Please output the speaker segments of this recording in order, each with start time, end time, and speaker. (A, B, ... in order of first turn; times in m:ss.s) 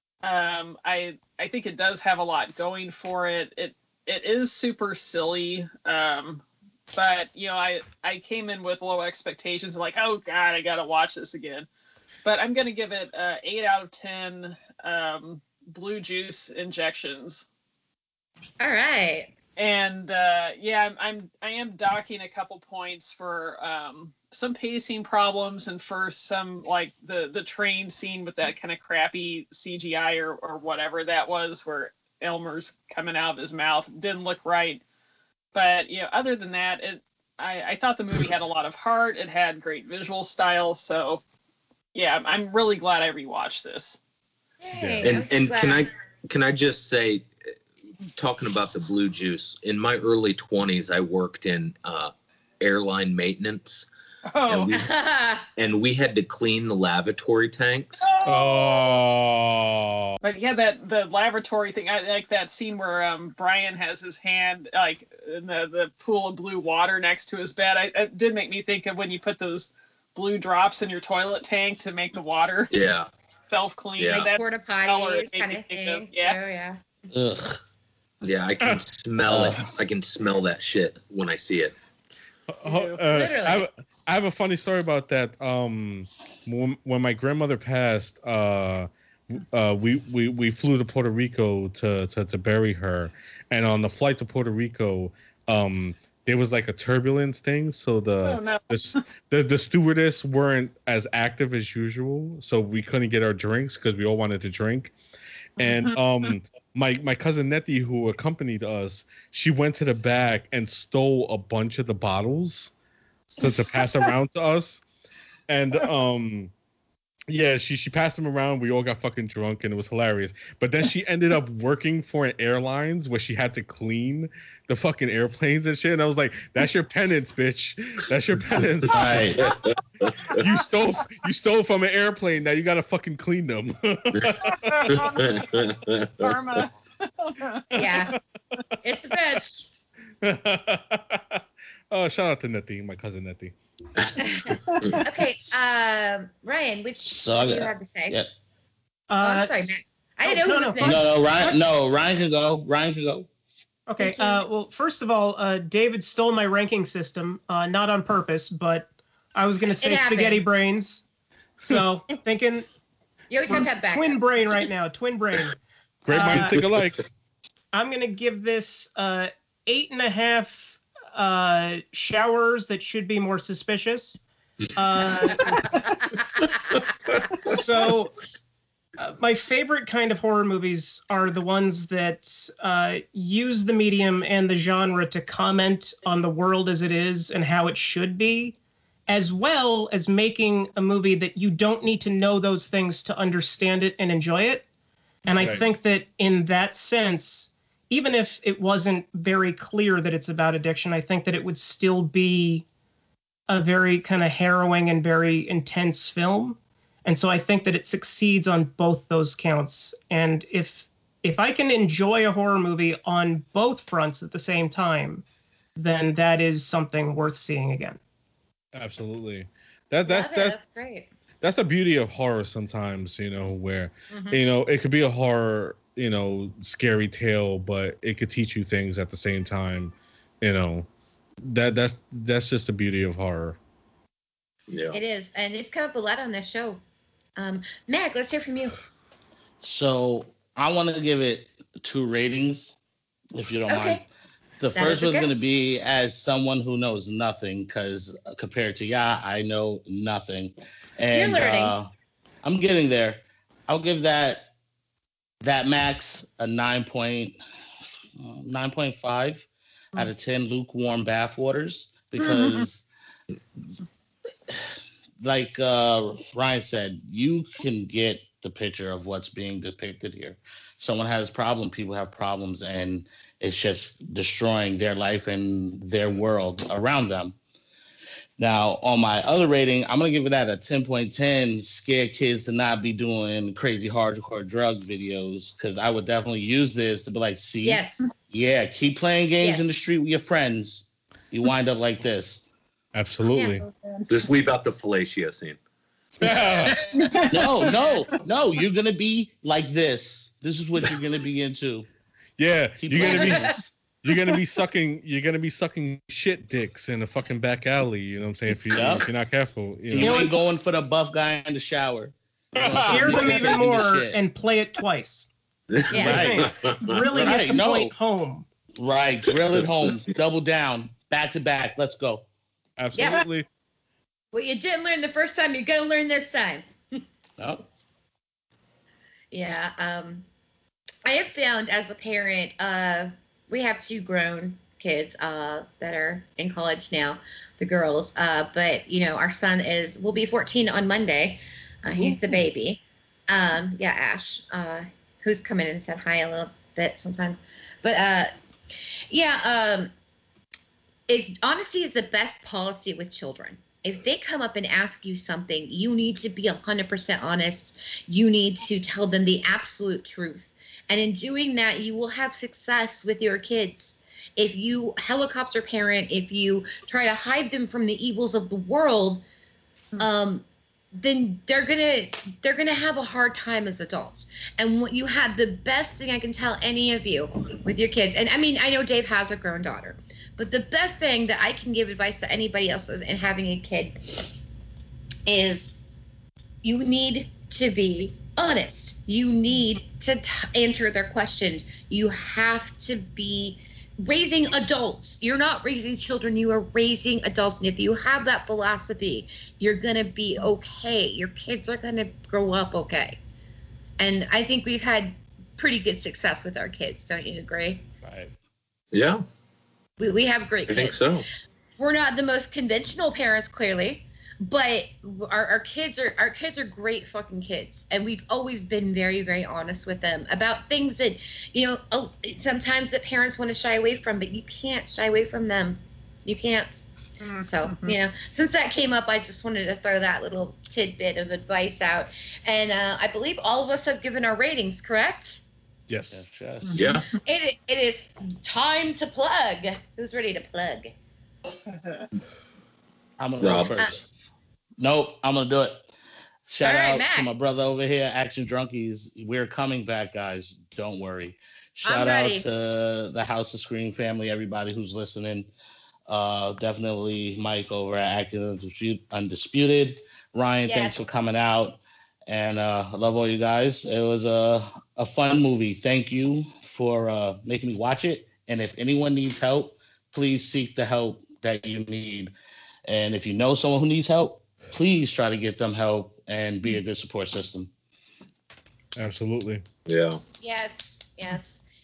0:00.2-0:11.7 A
0:12.2-0:17.5 A
0:18.6-0:19.3 B
0:19.6-0:34.8 A
0:35.5-0:41.2 A
0:41.9-0:44.0 A
0:44.6-0:45.9 B
0:44.8-0:45.1 C
0:45.0-0:47.3 D
0:48.2-0:53.8 D
0:54.3-0:54.8 A
0:54.5-0:54.9 D
0:54.7-0:55.5 B
0:55.6-0:58.1 D
0:58.0-0:59.0 A
0:58.2-1:00.2 C
1:00.2-1:12.7 A
1:12.7-1:13.1 D
1:13.5-1:16.4 A
1:14.0-1:14.3 D
1:14.1-1:16.8 B
1:17.1-1:17.6 E
1:18.2-1:21.7 D
1:19.2-1:19.7 E
1:22.5-1:44.9 C
1:22.6-1:23.0 A
1:23.0-1:23.7 B
1:38.2-1:39.0 A
1:45.6-1:52.7 C
1:45.6-1:46.0 A
1:53.3-1:54.8 C
1:55.5-1:56.5 C
1:57.3-2:09.4 C
2:08.9-2:09.4 E
2:09.4-2:10.3 D
2:10.4-2:15.2 C
2:14.4-2:15.4 A
2:14.9-2:16.4 D
2:16.2-2:18.1 A
2:17.7-2:18.2 B
2:17.8-2:18.2 C
2:18.8-2:19.7 B
2:20.2-2:23.6 C
2:24.2-2:24.5 B
2:24.6-2:25.0 A
2:25.0-2:28.2 B
2:27.1-2:28.3 E
2:29.1-2:31.6 F
2:29.2-2:31.1 B
2:30.8-2:33.3 E
2:33.9-2:41.0 F
2:39.8-2:40.5 B
2:41.6-2:42.7 F
2:43.3-2:44.5 B
2:43.8-2:45.6 F
2:46.1-2:47.0 C
2:46.1-2:46.6 F
2:47.7-2:54.2 F
2:54.8-2:56.0 F
2:57.4-2:58.2 F
2:59.0-3:08.6 F
3:09.1-3:14.7 F
3:15.2-3:22.6 F
3:15.4-3:15.7 C
3:23.5-3:35.2 F
3:35.8-3:38.0 F
3:38.7-3:40.6 C
3:40.0-3:41.1 B
3:41.4-3:50.9 C
3:44.1-3:44.4 B
3:51.4-3:53.6 C
3:54.7-3:55.0 D
3:54.9-3:56.8 B
3:57.4-3:58.8 B
3:59.6-4:02.8 E
4:03.4-4:04.0 E
4:03.7-4:04.0 B
4:04.6-4:11.9 E
4:04.7-4:05.3 B
4:11.1-4:11.7 B
4:12.4-4:14.5 E
4:15.4-4:17.4 E
4:18.2-4:22.9 E
4:22.2-4:22.6 A
4:25.2-4:37.4 E
4:38.4-4:52.5 E
4:47.6-4:48.1 B
4:49.4-4:49.8 B
4:52.9-4:53.6 C
4:53.3-4:53.6 B
4:53.7-4:54.1 A
4:54.1-4:55.6 D
4:56.2-4:56.8 C
4:56.3-4:56.7 D
4:57.0-4:57.9 A
4:57.3-5:01.9 E
5:02.4-5:10.3 C
5:02.8-5:03.7 E
5:03.0-5:03.5 B
5:08.5-5:09.1 E
5:09.9-5:14.2 E
5:10.0-5:10.3 A
5:12.6-5:13.6 C
5:12.6-5:15.3 F
5:15.7-5:17.1 D
5:15.9-5:16.2 B
5:16.0-5:16.6 C
5:16.0-5:18.4 F
5:16.0-5:16.5 E
5:17.1-5:17.9 E
5:18.8-5:22.3 E
5:22.8-5:23.5 C
5:23.0-5:23.2 B
5:24.3-5:26.6 B
5:27.4-5:27.6 E
5:29.3-5:30.2 B
5:31.0-5:48.3 B
5:49.1-5:49.9 B
5:51.1-6:09.2 B
6:10.0-6:10.4 B
6:11.0-6:24.4 B
6:25.3-6:25.8 B
6:26.6-6:43.2 B
6:44.0-6:47.8 B
6:48.0-6:48.3 C
6:48.9-6:49.2 D
6:50.0-6:51.0 B
6:50.7-6:51.3 D
6:51.8-7:06.9 B
7:07.2-7:08.0 A
7:07.4-7:15.4 B
7:15.9-7:16.2 C
7:16.1-7:16.8 E
7:16.8-7:17.0 D
7:17.1-7:20.9 B
7:21.7-7:22.0 A
7:23.2-7:24.0 E
7:23.4-7:23.7 D
7:24.8-7:25.9 E
7:26.5-7:35.5 E
7:26.6-7:27.3 B
7:31.8-7:32.5 B
7:36.1-7:52.3 E
7:40.6-7:41.0 B
7:52.9-7:57.7 E
7:59.0-7:59.6 C
7:59.9-8:00.2 D
8:00.4-8:01.6 B